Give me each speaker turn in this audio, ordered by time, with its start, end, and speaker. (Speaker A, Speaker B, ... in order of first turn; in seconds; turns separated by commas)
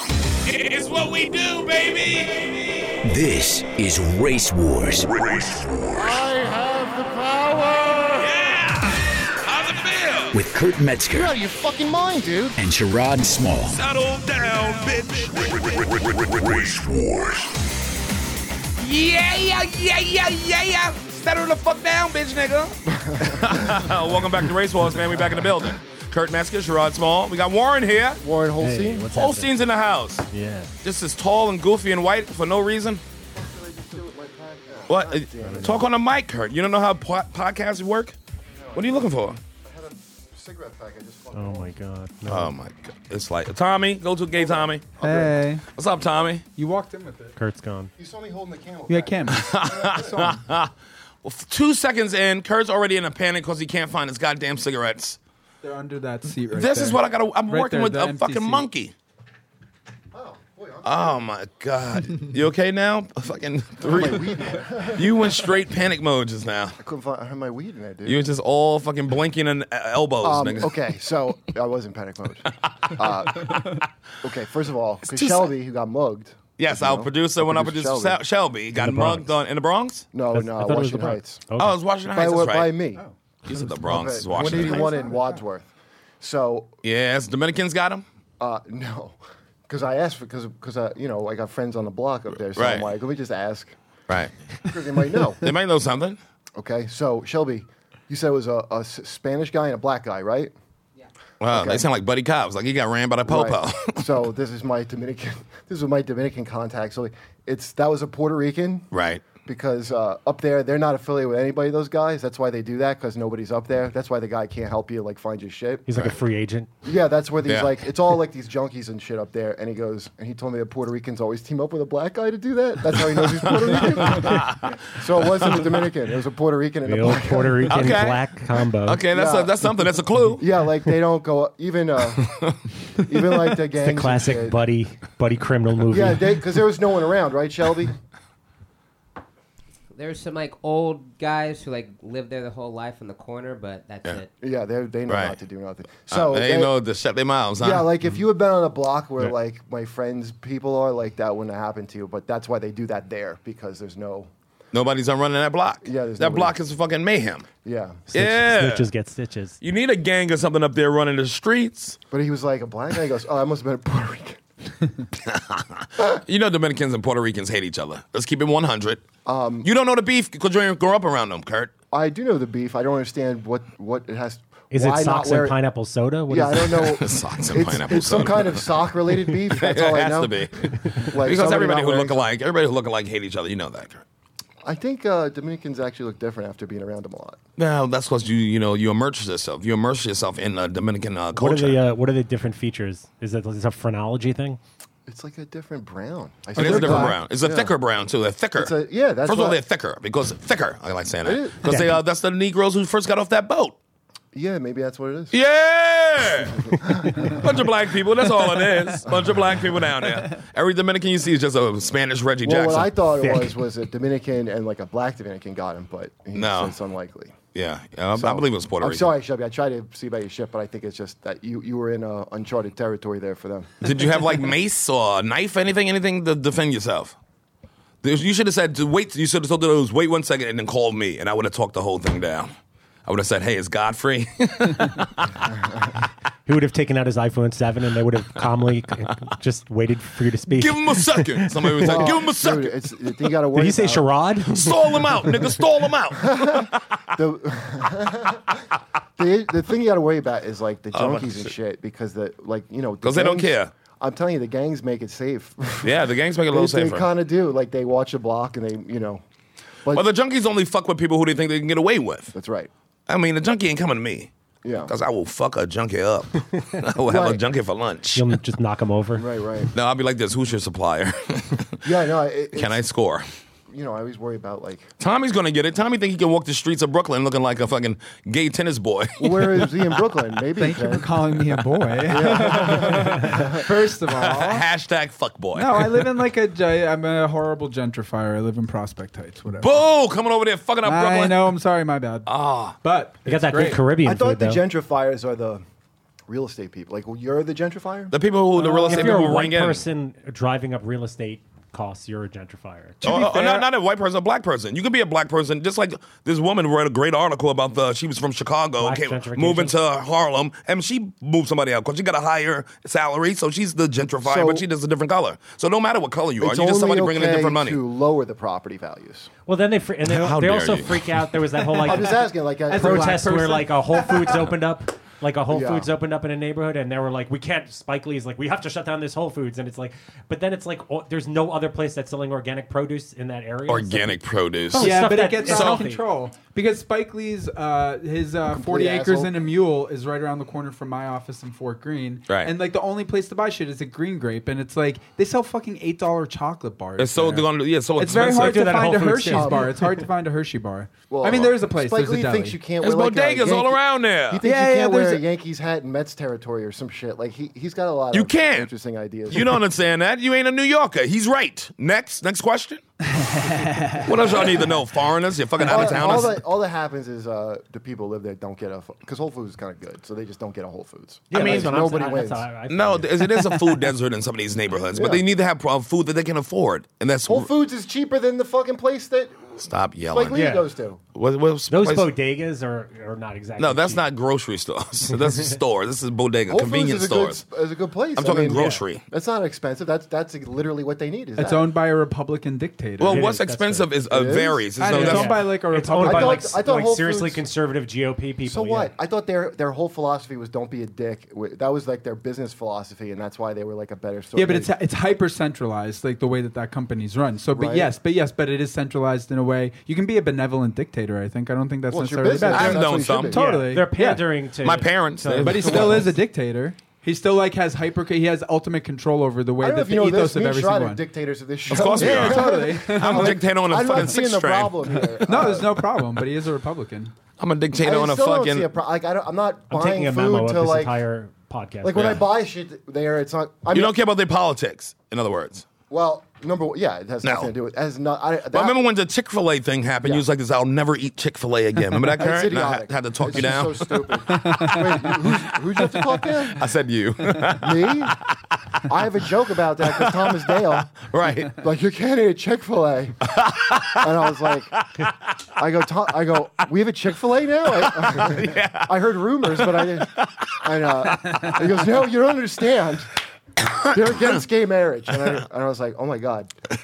Speaker A: 0.5-2.9, Speaker B: 3.0-5.9, Speaker C: 5.9-8.3, Speaker A: 8.2-10.3, Speaker B: 10.3-11.3, Speaker C: 11.1-12.6, Speaker B: 12.6-13.8, Speaker A: 13.7-17.2, Speaker A: 18.8-28.2, Speaker C: 22.9-23.9, Speaker C: 28.2-29.1, Speaker D: 28.6-29.5, Speaker A: 29.1-30.3, Speaker D: 30.3-30.7, Speaker A: 30.8-33.0, Speaker C: 33.3-35.8, Speaker A: 34.9-38.2, Speaker D: 35.4-35.8, Speaker C: 38.5-41.7, Speaker A: 38.8-39.4, Speaker D: 41.3-42.5, Speaker A: 42.3-44.9, Speaker C: 44.4-45.4, Speaker E: 45.0-45.6, Speaker A: 45.7-46.5, Speaker E: 46.5-47.3, Speaker D: 47.4-47.9, Speaker C: 48.0-50.4, Speaker E: 48.9-49.6, Speaker A: 49.3-50.7, Speaker A: 51.2-55.2, Speaker E: 55.6-58.7, Speaker A: 56.5-58.9, Speaker C: 60.1-61.3, Speaker A: 60.8-66.8, Speaker C: 63.8-65.4, Speaker C: 66.8-68.3, Speaker A: 68.0-70.7, Speaker C: 70.2-78.2, Speaker A: 75.1-75.5, Speaker A: 76.6-80.1, Speaker D: 78.8-79.3, Speaker C: 80.1-81.4, Speaker D: 80.3-81.8, Speaker A: 81.6-82.7, Speaker C: 82.1-83.0, Speaker A: 83.5-85.1, Speaker C: 83.8-86.7, Speaker A: 86.8-88.0, Speaker C: 88.4-93.8, Speaker A: 92.5-92.9, Speaker C: 94.6-95.5, Speaker A: 95.4-96.2, Speaker C: 96.6-100.5, Speaker A: 101.4-104.1, Speaker C: 101.5-101.9, Speaker C: 103.3-108.9, Speaker A: 108.9-109.3, Speaker C: 109.5-115.9, Speaker D: 115.9-116.7, Speaker C: 116.8-127.9, Speaker A: 117.5-117.8, Speaker A: 123.0-125.7, Speaker D: 126.8-129.0, Speaker A: 127.7-130.4, Speaker C: 129.1-129.8, Speaker C: 130.4-132.3, Speaker A: 132.2-132.6, Speaker C: 133.0-134.6, Speaker D: 133.8-136.4, Speaker C: 135.9-138.0, Speaker F: 139.9-144.3, Speaker C: 144.4-146.7, Speaker A: 145.1-145.4, Speaker A: 146.1-147.9, Speaker C: 147.6-154.3, Speaker A: 154.7-157.5, Speaker C: 155.8-156.6, Speaker C: 157.6-158.1, Speaker D: 158.1-159.6, Speaker A: 158.1-158.8, Speaker A: 159.6-162.0, Speaker C: 162.1-164.4, Speaker A: 165.2-169.1, Speaker C: 169.2-169.7, Speaker A: 169.6-171.7, Speaker C: 171.9-175.6, Speaker D: 174.7-176.9, Speaker C: 176.3-182.2, Speaker A: 176.7-178.6, Speaker A: 179.5-184.0, Speaker C: 184.6-187.4, Speaker A: 187.6-191.8, Speaker D: 191.3-194.6, Speaker C: 195.1-197.7, Speaker A: 196.5-198.7, Speaker D: 196.6-197.1, Speaker C: 198.6-199.6, Speaker A: 199.2-203.8, Speaker C: 201.2-201.9, Speaker C: 204.3-205.3, Speaker A: 205.3-212.9, Speaker C: 206.4-207.5, Speaker C: 212.4-217.3, Speaker D: 213.2-213.5, Speaker A: 216.3-216.7, Speaker A: 217.5-219.1, Speaker C: 218.1-223.7, Speaker A: 223.8-227.2, Speaker A: 228.0-232.5, Speaker A: 233.1-235.5, Speaker C: 235.5-235.9, Speaker D: 236.5-242.1, Speaker A: 240.5-242.7, Speaker C: 241.8-244.1, Speaker D: 243.5-245.6, Speaker A: 244.5-246.8, Speaker C: 246.1-248.6, Speaker C: 249.2-259.2, Speaker A: 250.9-251.5, Speaker A: 253.0-253.7, Speaker A: 255.8-257.1, Speaker A: 259.9-262.3, Speaker C: 262.3-262.7, Speaker A: 263.1-264.3, Speaker C: 264.6-264.9, Speaker A: 264.9-268.3, Speaker C: 267.1-267.4, Speaker D: 268.1-269.2, Speaker C: 269.1-269.7, Speaker A: 269.7-271.8, Speaker C: 271.8-272.8, Speaker A: 272.6-273.2, Speaker C: 273.7-274.9, Speaker A: 275.0-280.0, Speaker C: 279.2-281.1, Speaker E: 280.6-284.7, Speaker C: 282.1-283.7, Speaker A: 284.1-286.0, Speaker E: 285.6-289.8, Speaker A: 289.6-291.5, Speaker E: 290.8-293.8, Speaker A: 292.2-292.8, Speaker D: 293.2-294.6, Speaker C: 294.0-295.6, Speaker C: 296.3-298.1, Speaker A: 298.1-299.8, Speaker D: 298.6-303.0, Speaker E: 298.6-299.2, Speaker E: 303.0-303.7, Speaker A: 303.0-317.8, Speaker D: 308.8-309.7, Speaker C: 314.2-314.6, Speaker C: 316.4-319.3, Speaker D: 319.5-322.2, Speaker A: 320.1-321.0, Speaker E: 321.7-324.4, Speaker C: 321.8-323.2, Speaker D: 322.7-336.0, Speaker C: 325.5-325.9, Speaker A: 333.7-335.9, Speaker E: 334.8-352.6, Speaker C: 338.5-339.4, Speaker A: 347.0-348.9, Speaker D: 348.3-349.9, Speaker C: 349.3-349.8, Speaker C: 351.1-359.6, Speaker A: 352.8-354.4, Speaker E: 354.4-355.2, Speaker A: 358.1-358.7, Speaker A: 359.3-362.8, Speaker E: 363.1-364.1, Speaker A: 363.9-366.4, Speaker C: 365.6-372.5, Speaker D: 365.8-366.2, Speaker D: 371.3-373.7, Speaker A: 371.3-371.9, Speaker A: 372.7-377.5, Speaker C: 374.9-375.2, Speaker C: 377.2-381.0, Speaker A: 379.6-380.5, Speaker D: 380.3-380.7, Speaker A: 381.1-382.1, Speaker D: 381.7-384.0, Speaker A: 383.6-387.4, Speaker C: 386.5-391.7, Speaker A: 388.2-389.0, Speaker D: 388.5-388.8, Speaker E: 391.4-393.3, Speaker A: 393.0-395.3, Speaker D: 393.1-393.9, Speaker C: 394.1-394.6, Speaker E: 394.8-396.6, Speaker D: 394.9-398.9, Speaker C: 396.0-397.4, Speaker C: 398.4-404.7, Speaker E: 404.4-414.3, Speaker C: 407.5-407.9, Speaker C: 411.9-413.4, Speaker A: 412.5-413.4, Speaker D: 413.3-416.1, Speaker A: 414.6-416.1, Speaker E: 415.4-421.0, Speaker C: 419.6-425.7, Speaker A: 421.7-425.8, Speaker E: 421.8-424.1, Speaker E: 425.2-427.1, Speaker A: 427.4-428.7, Speaker C: 427.8-431.0, Speaker D: 429.7-432.2, Speaker C: 431.8-433.9, Speaker A: 431.9-432.2, Speaker A: 433.7-435.7, Speaker C: 435.9-438.8, Speaker A: 437.2-437.5, Speaker A: 438.5-448.2, Speaker C: 442.1-446.7, Speaker E: 444.3-444.9, Speaker C: 447.6-448.2, Speaker C: 448.9-453.2, Speaker A: 449.9-451.6, Speaker A: 453.3-454.1, Speaker C: 453.8-454.8, Speaker C: 455.6-463.1, Speaker A: 457.8-461.9, Speaker C: 463.8-466.5